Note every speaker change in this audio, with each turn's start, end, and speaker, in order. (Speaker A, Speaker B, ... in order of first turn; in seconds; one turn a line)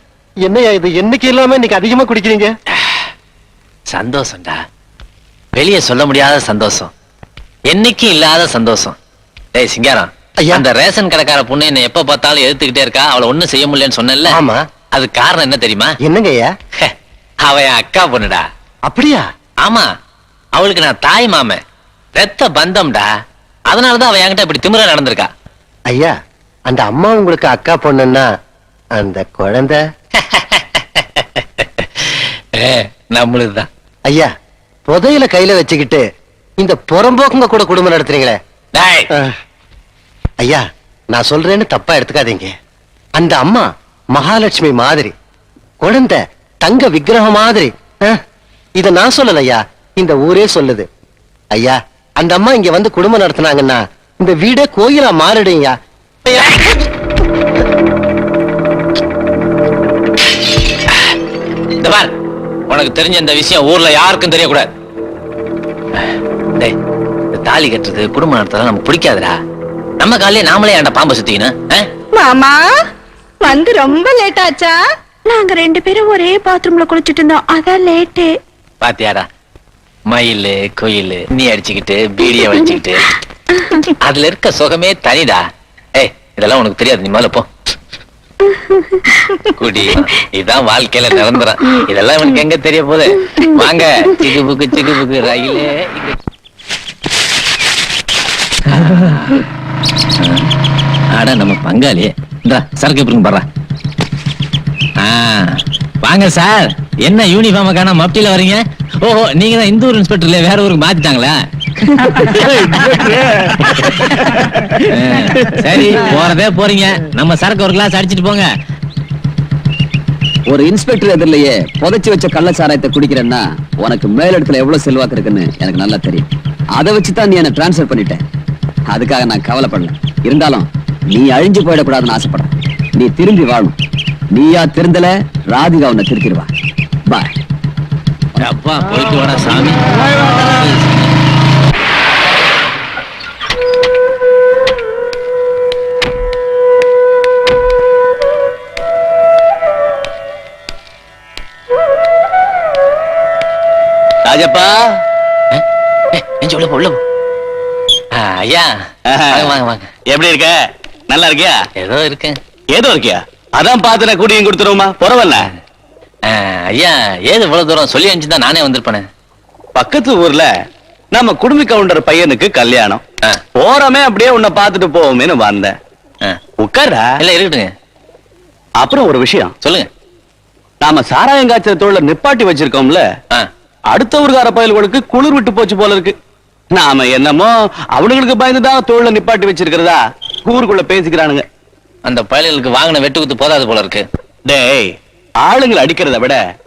Speaker A: 0.4-2.5
Speaker B: 3.9-4.6
Speaker B: 5.5-6.9
Speaker B: 7.7-8.9
Speaker B: 9.6-14.4
Speaker A: 14.3-14.6
Speaker B: 14.9-15.9
Speaker A: 16.0-16.5
Speaker B: 17.4-18.4
Speaker A: 18.9-19.2
Speaker B: 20.6-21.6
Speaker B: 22.2-23.1
Speaker B: 23.7-25.3
Speaker A: 26.7-28.3
Speaker A: 29.0-29.8
Speaker B: 30.3-30.6
Speaker B: 31.6-33.7
Speaker A: 34.9-36.0
Speaker A: 36.6-38.4
Speaker B: 38.7-39.1
Speaker A: 40.4-42.5
Speaker A: 43.2-45.1
Speaker A: 45.8-48.2
Speaker A: 48.8-50.9
Speaker A: 51.5-55.7
Speaker A: 56.2-56.6
Speaker B: 61.8-62.1
Speaker B: 62.7-64.7
Speaker B: 66.0-66.8
Speaker B: 67.4-69.4
Speaker B: 70.0-71.9
Speaker C: 72.2-72.6
Speaker C: 73.4-78.4
Speaker B: 78.8-79.3
Speaker B: 80.1-83.2
Speaker B: 83.9-85.4
Speaker B: 86.0-87.5
Speaker B: 89.6-96.2
Speaker B: 98.7-99.4
Speaker B: 100.2-100.5
Speaker B: 101.2-103.5
Speaker B: 105.0-111.4
Speaker B: 112.7-113.1
Speaker B: 114.9-118.5
Speaker D: 120.5-126.2
Speaker D: 126.8-128.2
Speaker D: 128.9-132.5
Speaker D: 133.0-133.7
Speaker D: 134.3-136.5
Speaker B: 138.4-141.2
Speaker E: 154.3-154.7
Speaker B: 155.5-157.0
Speaker B: 158.2-158.7
Speaker E: 159.1-159.6
Speaker B: 159.3-159.9
Speaker E: 160.1-160.6
Speaker E: 161.1-161.6
Speaker B: 161.8-162.4
Speaker E: 162.7-165.5
Speaker B: 166.3-169.1
Speaker E: 169.8-170.5
Speaker E: 171.1-173.0
Speaker E: 173.6-175.7
Speaker E: 176.6-177.1
Speaker B: 177.2-177.7
Speaker E: 178.8-179.5
Speaker E: 180.8-183.0
Speaker E: 183.9-186.2
Speaker E: 186.7-191.4
Speaker B: 192.1-194.1
Speaker E: 194.5-194.9
Speaker E: 195.4-196.4